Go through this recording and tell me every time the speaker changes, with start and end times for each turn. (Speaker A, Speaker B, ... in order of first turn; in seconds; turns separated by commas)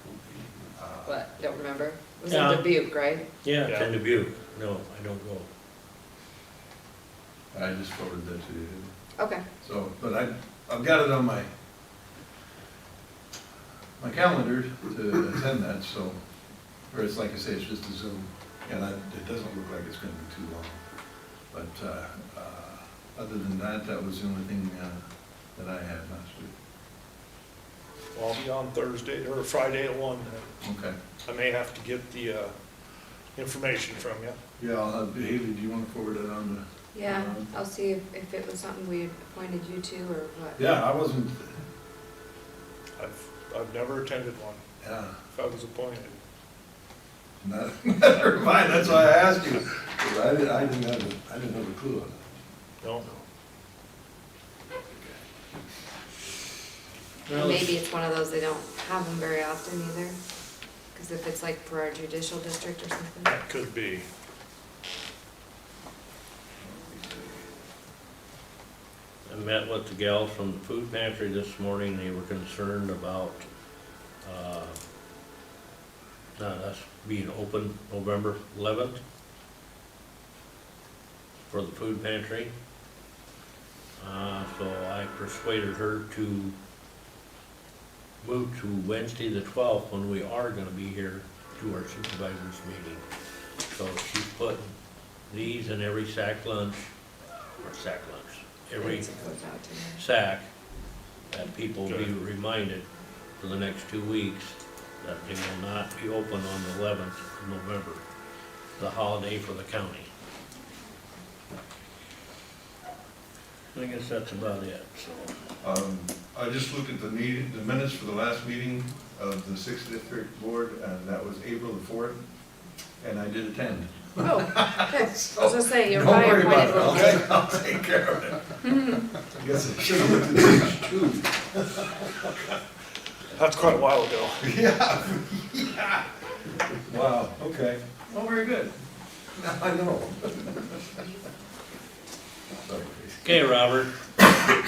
Speaker A: 0.3-1.2, Speaker B: 1.1-3.3, Speaker C: 2.3-2.6, Speaker C: 3.4-5.5, Speaker D: 3.6-3.9, Speaker A: 7.5-8.9, Speaker B: 9.2-9.5, Speaker A: 9.5-11.5, Speaker A: 14.0-16.2, Speaker A: 16.9-20.8, Speaker A: 21.5-25.0, Speaker A: 25.6-26.5, Speaker D: 28.1-30.5, Speaker A: 30.6-31.0, Speaker D: 31.2-32.5, Speaker D: 33.4-34.4, Speaker A: 34.6-37.5, Speaker B: 36.9-40.6, Speaker A: 40.6-41.5, Speaker D: 43.0-44.6, Speaker A: 44.8-45.1, Speaker D: 45.3-46.2, Speaker A: 47.4-52.2, Speaker D: 52.8-53.1, Speaker C: 57.3-57.7, Speaker B: 57.3-60.2, Speaker B: 60.9-63.4, Speaker D: 63.2-64.1, Speaker C: 69.2-73.5, Speaker C: 74.2-74.8, Speaker C: 76.4-79.0, Speaker C: 81.5-82.5, Speaker C: 84.0-86.5, Speaker C: 88.2-93.0, Speaker C: 93.7-94.7, Speaker C: 95.3-96.9, Speaker C: 97.6-99.1, Speaker B: 98.8-100.0, Speaker C: 100.0-100.5, Speaker C: 101.3-102.8, Speaker D: 101.8-102.1, Speaker C: 103.4-108.0, Speaker C: 108.8-110.1, Speaker C: 113.7-115.3, Speaker A: 115.6-122.2, Speaker A: 123.0-128.5, Speaker B: 124.2-127.3, Speaker A: 129.3-131.8, Speaker D: 133.3-134.5, Speaker A: 134.4-136.1, Speaker A: 136.9-138.7, Speaker A: 139.3-140.8, Speaker A: 142.6-143.3, Speaker C: 143.2-143.9